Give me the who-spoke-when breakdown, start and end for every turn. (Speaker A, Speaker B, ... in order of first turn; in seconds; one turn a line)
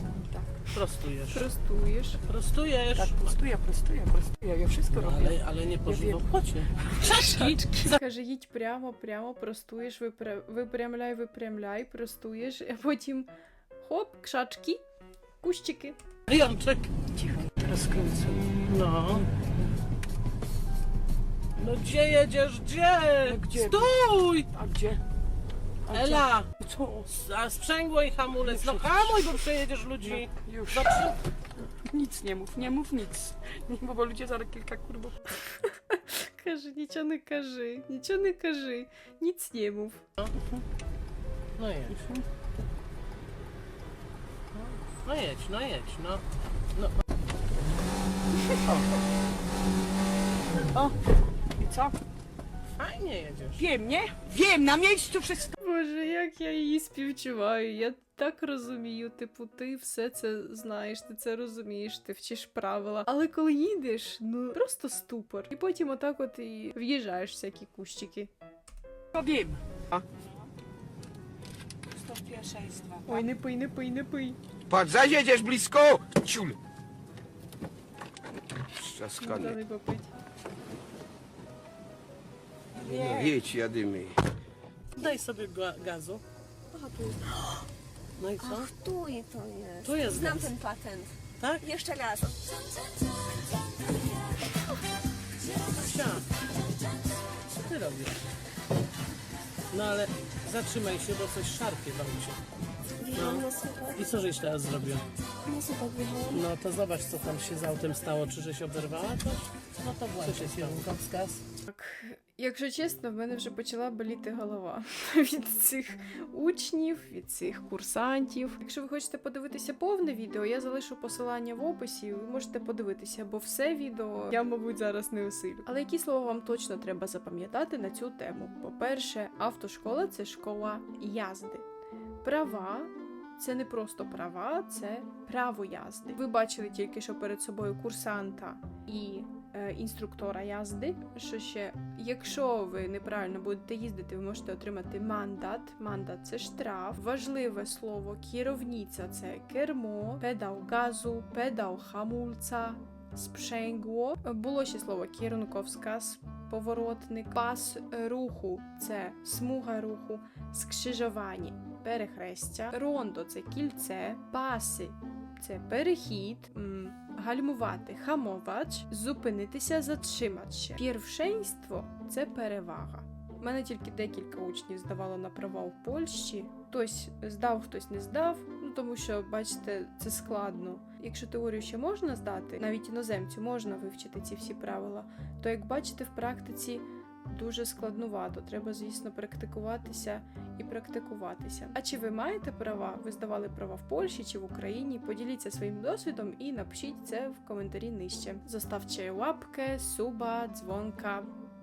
Speaker A: 0.7-1.4
Speaker B: 1.3-2.2
Speaker A: 2.2-3.2
Speaker C: 2.9-6.2
Speaker A: 4.9-6.7
Speaker C: 6.8-7.9
Speaker B: 7.0-13.3
Speaker B: 13.8-14.8
Speaker B: 15.4-16.0
Speaker A: 16.3-16.9
Speaker C: 17.2-18.5
Speaker A: 18.6-19.3
Speaker A: 21.6-24.5
Speaker C: 23.2-23.9
Speaker C: 24.5-25.0
Speaker C: 25.9-27.0
Speaker A: 25.9-31.2
Speaker C: 28.4-29.3
Speaker C: 30.0-31.1
Speaker C: 31.8-35.2
Speaker B: 35.6-40.0
Speaker A: 40.2-40.6
Speaker A: 41.6-42.0
Speaker C: 41.9-42.2
Speaker A: 44.5-46.2
Speaker C: 51.6-51.9
Speaker A: 52.8-53.6
Speaker C: 53.6-55.5
Speaker B: 55.6-68.3
Speaker C: 69.1-69.6
Speaker C: 71.9-73.2
Speaker B: 73.1-74.4
Speaker D: 74.7-76.6
Speaker D: 78.7-79.6
Speaker B: 79.2-80.1
Speaker D: 82.8-84.2
Speaker A: 85.0-86.2
Speaker E: 86.8-87.4
Speaker A: 88.2-88.7
Speaker E: 88.4-92.4
Speaker A: 89.8-90.6
Speaker A: 91.4-91.7
Speaker A: 95.7-96.2
Speaker A: 97.5-98.2
Speaker A: 99.7-102.4
Speaker E: 103.0-104.0
Speaker A: 103.1-105.0
Speaker E: 105.5-106.4
Speaker A: 106.3-111.4
Speaker B: 111.7-131.7
Speaker B: 132.2-201.3